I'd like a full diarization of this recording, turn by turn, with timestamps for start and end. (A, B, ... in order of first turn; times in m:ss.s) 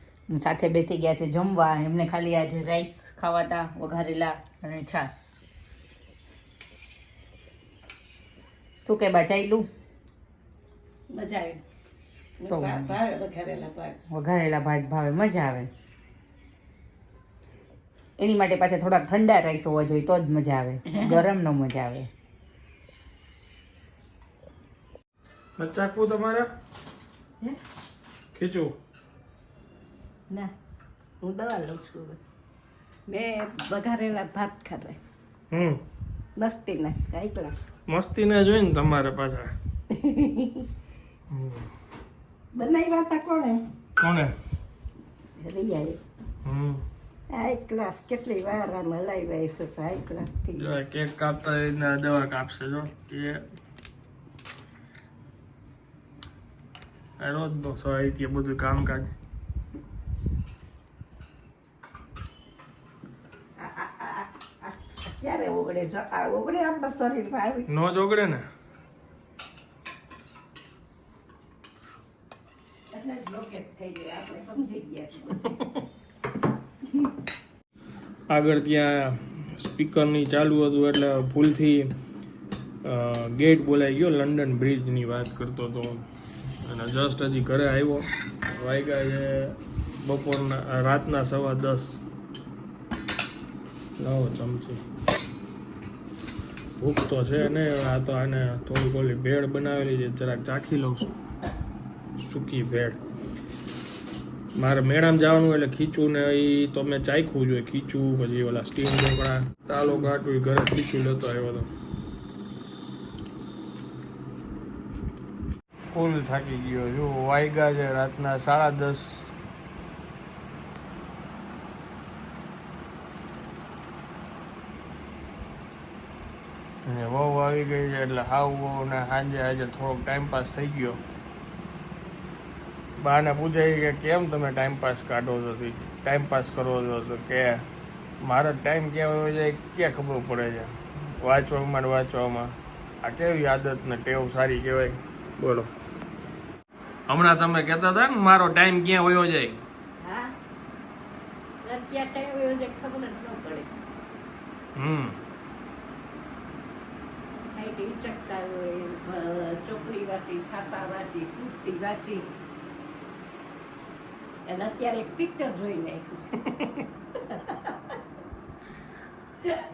0:00.3-0:05.4 A
0:08.8-0:09.7 A
0:11.1-0:11.6 B
0:12.4-0:14.0 B
0:12.5-0:12.9 A
0:14.1-0:15.7 A
0:18.2-0:22.1 A
0:20.9-0:21.2 B
0:25.6-0:26.5 C
0:28.3-0:28.7 C
0:31.2-0:32.2 B
0:33.1-0:35.0 B
0:35.5-0:35.8 C
0:36.4-0:37.6 B
0:37.9-0:39.5 C
0:39.9-0:40.7 B
0:41.3-0:41.7 C
0:42.5-0:43.6 B
0:44.0-0:44.4 C
0:45.4-0:46.0 B
0:46.4-0:46.8 C
0:47.3-0:50.8 B
0:50.6-0:53.4 C
0:57.2-0:59.1 C
1:03.6-1:07.7 B
1:07.7-1:08.4 C
1:12.9-1:15.6 B
1:18.3-1:21.9 C
1:22.8-1:26.0 C
1:26.6-1:32.0 C
1:34.0-1:34.8 C
1:36.8-1:41.1 C
1:42.2-1:43.0 C
1:44.6-1:51.7 C
1:55.9-1:59.3 C
2:06.8-2:11.0 C
2:13.0-2:17.6 C
2:18.2-2:25.7 C
2:27.1-2:29.6 C
2:30.0-2:30.3 B
2:31.6-2:33.7 B
2:34.8-2:35.2 C
2:37.4-2:42.3 B
2:44.5-2:47.8 B